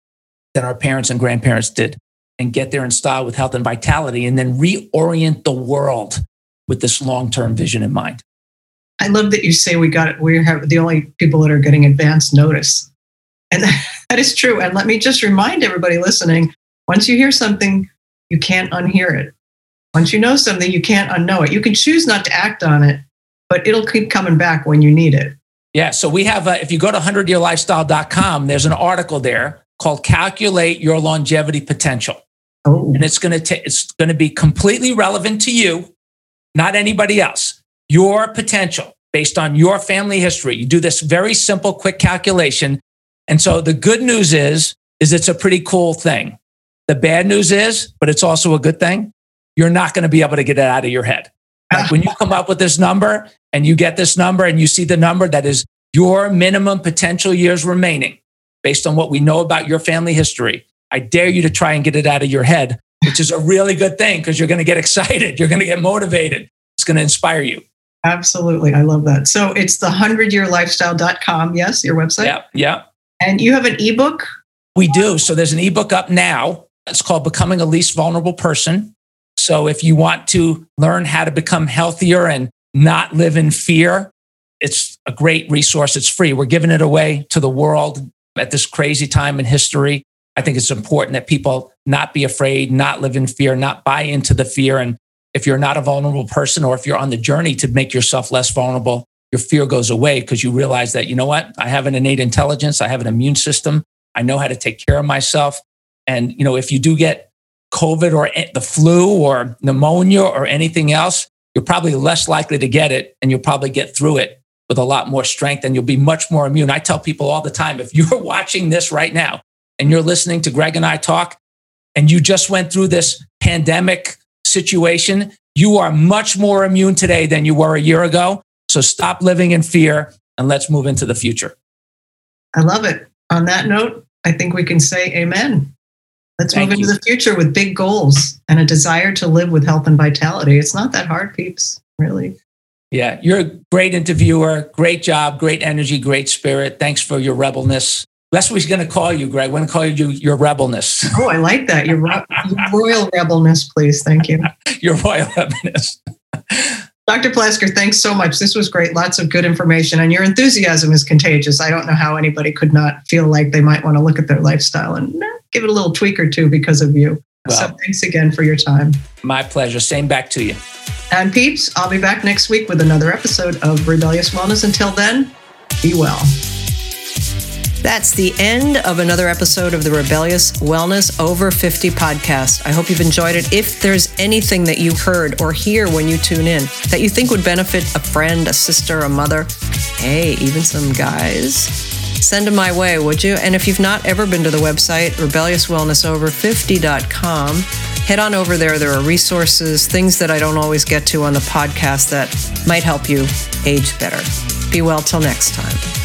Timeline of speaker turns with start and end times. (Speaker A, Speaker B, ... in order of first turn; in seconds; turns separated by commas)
Speaker A: 0.6-8.2, Speaker B: 9.0-12.9, Speaker B: 13.5-19.4, Speaker B: 19.9-25.4, Speaker A: 25.7-32.2, Speaker B: 32.7-33.0, Speaker A: 32.9-35.9, Speaker A: 36.5-67.6, Speaker B: 51.7-52.0, Speaker B: 68.0-72.4, Speaker A: 72.2-72.8, Speaker B: 73.2-74.3, Speaker A: 74.8-121.4, Speaker A: 122.0-131.6, Speaker B: 132.6-135.7, Speaker B: 136.4-142.4, Speaker A: 136.5-136.9, Speaker A: 142.9-151.2, Speaker B: 151.1-154.5, Speaker A: 154.7-156.8, Speaker B: 157.1-169.0, Speaker A: 167.4-167.8, Speaker A: 169.2-170.6, Speaker B: 171.1-176.3, Speaker B: 177.8-205.9